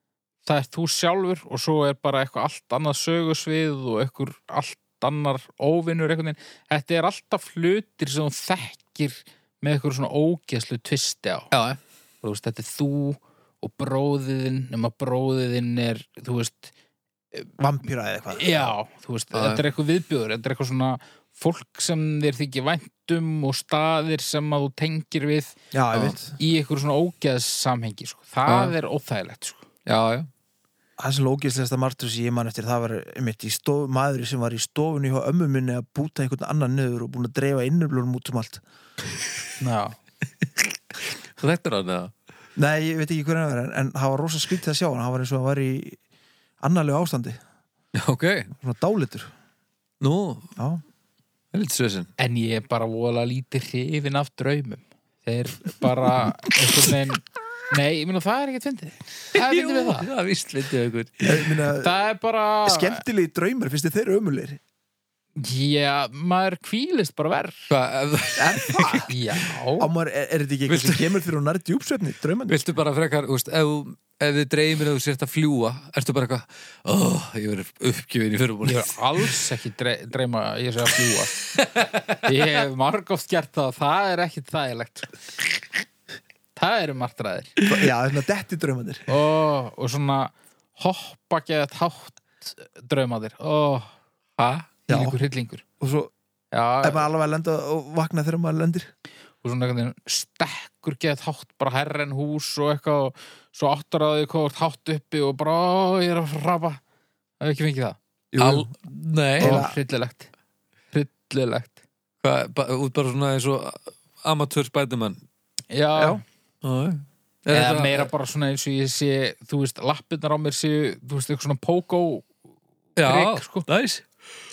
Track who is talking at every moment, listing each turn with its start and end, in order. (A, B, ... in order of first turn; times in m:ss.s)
0:00.4-0:11.5 A
0:11.5-0:11.8 B
0:12.2-0:16.7 A
0:17.6-0:18.7 C
0:18.3-0:25.6 A
0:19.3-0:19.6 B
0:25.7-0:26.4 C
0:26.4-0:29.6 A
0:28.4-0:28.7 B
0:29.8-0:30.3 B
0:31.0-0:38.6 C
0:39.6-0:40.0 A
0:41.4-0:42.1 B
0:42.6-0:46.0 C
0:46.6-0:47.4 C
0:47.9-0:48.5 B
0:48.6-0:49.3 C
0:50.0-0:50.6 B
0:50.6-0:50.8 C
0:51.5-0:52.1 B
0:52.2-1:00.1 A
0:59.3-1:01.6 B
1:01.2-1:01.9 C
1:01.7-1:03.0 A
1:02.6-1:04.6 C
1:05.4-1:07.7 A
1:07.7-1:09.1 B
1:08.4-1:09.1 C
1:09.1-1:09.9 A
1:09.8-1:12.6 C
1:10.7-1:11.2 B
1:12.5-1:19.4 B
1:18.6-1:21.4 A
1:21.4-1:22.2 B
1:22.2-1:25.2 A
1:26.5-1:27.6 A
1:27.6-1:27.9 B
1:27.6-1:29.1 C
1:29.1-1:35.6 A
1:34.9-1:35.2 C
1:35.8-1:36.1 C
1:36.5-1:37.1 A
1:36.8-1:38.9 C
1:39.4-1:46.8 A
1:47.4-1:48.0 A
1:48.3-1:48.7 C
1:48.4-1:49.7 B
1:49.4-1:49.8 C
1:49.4-1:50.3 A
1:50.9-1:51.8 A
1:52.2-1:55.2 B
1:55.7-1:56.2 A
1:56.0-1:56.2 C
1:56.6-1:58.1 B
1:57.5-2:02.3 A
2:03.0-2:04.0 B
2:03.0-2:03.6 A